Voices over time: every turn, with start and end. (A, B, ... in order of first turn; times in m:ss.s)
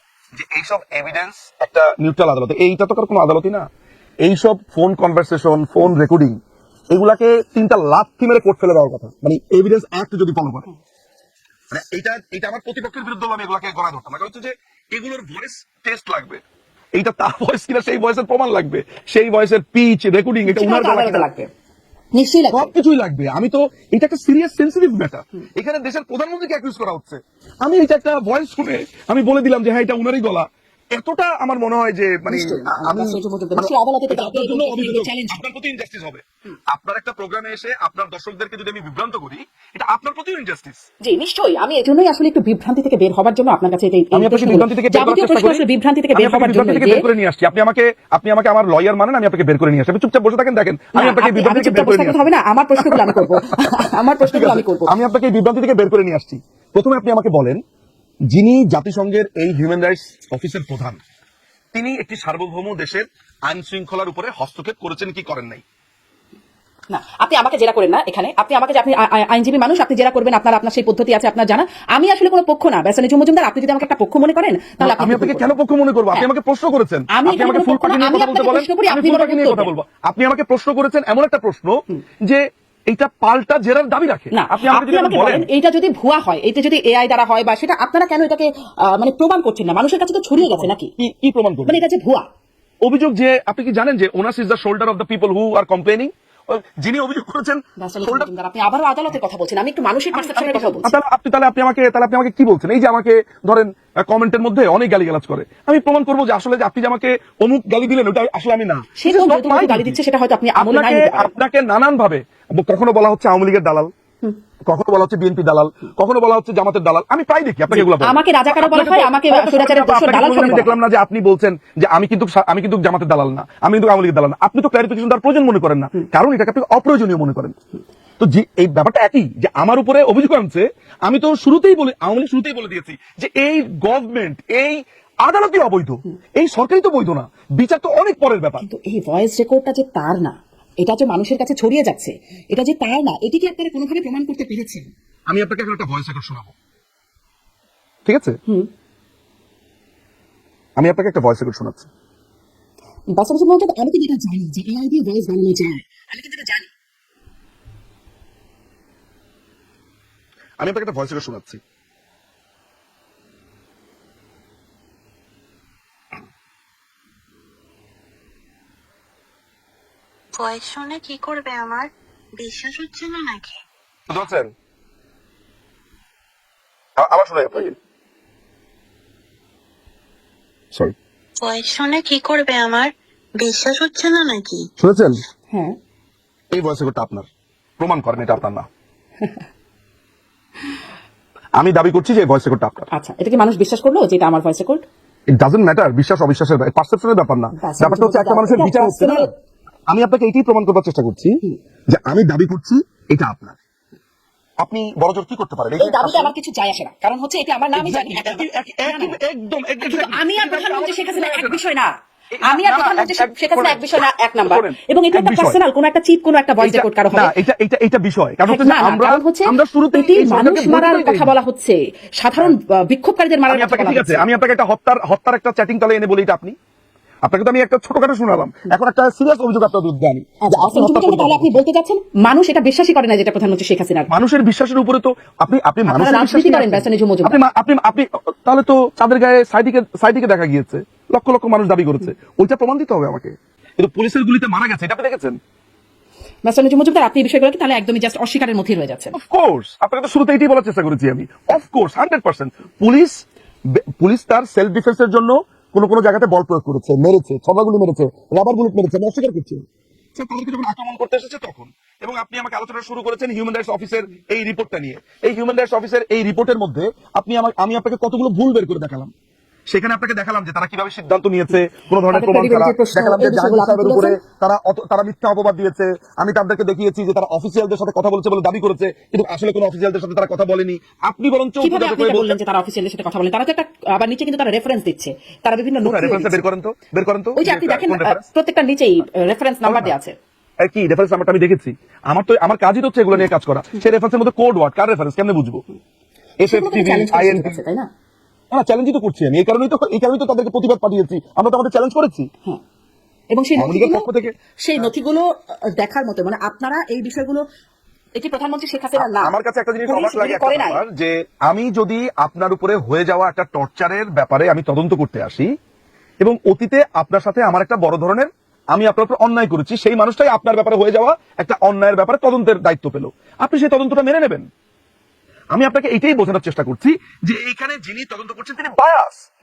0:00.4-0:03.7 A
0:04.2-0:06.4 A
0:06.9-0:10.7 A
0:11.7-0:16.4 A
0:17.0-0:21.3 A
0:20.5-0:21.5 B
0:22.1-0:22.7 B
0:22.5-0:40.9 A
0:32.3-0:35.4 B
0:41.0-0:47.1 B
0:44.1-0:52.2 A
0:51.0-0:55.0 B
0:52.8-0:53.6 A
0:54.2-0:57.6 A
0:58.3-1:01.0 A
1:01.7-1:05.6 A
1:06.9-1:15.5 B
1:14.8-1:25.5 A
1:17.1-1:19.7 B
1:24.3-1:30.9 B
1:30.4-1:31.8 A
1:31.7-1:32.3 B
1:32.8-1:38.3 A
1:37.8-1:41.0 B
1:40.1-1:50.0 A
1:49.0-1:51.3 B
1:50.6-1:53.9 A
1:54.7-2:07.6 A
1:57.7-2:00.8 B
2:08.2-2:18.6 A
2:18.6-2:24.9 B
2:25.3-2:26.5 A
2:28.1-2:28.4 A
2:30.8-2:31.9 A
2:33.1-2:36.7 B
2:40.6-2:41.6 A
2:50.4-2:53.6 C
2:54.1-2:54.5 A
2:57.0-2:57.8 A
3:01.4-3:04.7 C
3:04.8-3:05.2 A
3:05.5-3:05.8 B
3:06.5-3:07.3 A
3:07.8-3:08.7 A
3:11.6-3:12.9 A
3:12.9-3:14.9 B
3:15.3-3:19.3 A
3:17.6-3:19.3 B
3:19.9-3:23.6 A
3:24.6-3:26.3 A
3:25.8-3:29.2 B
3:27.8-3:31.6 A
3:29.8-3:31.9 B
3:32.3-3:35.6 A
3:32.4-3:37.3 B
3:36.6-3:41.3 A
3:38.5-3:44.3 B
3:43.5-3:46.6 A
3:47.2-3:51.6 A
3:50.4-3:54.1 B
3:54.1-4:05.4 A
3:55.9-3:57.4 B
4:06.4-4:09.2 B
4:09.1-4:19.6 A
4:20.2-4:29.1 A
4:29.7-4:42.4 A
4:32.1-4:34.2 B
4:41.6-4:46.4 B
4:45.8-4:48.2 A
4:47.4-4:50.2 B
4:49.6-4:49.9 A
4:50.6-4:55.6 A
4:56.4-4:57.6 A
4:56.5-4:57.9 B
4:58.5-5:02.3 A
5:03.3-5:07.4 B
5:03.6-5:04.4 A
5:08.2-5:09.3 B
5:09.0-5:15.5 A
5:09.9-5:10.8 B
5:16.2-5:24.5 A
5:25.5-5:29.3 A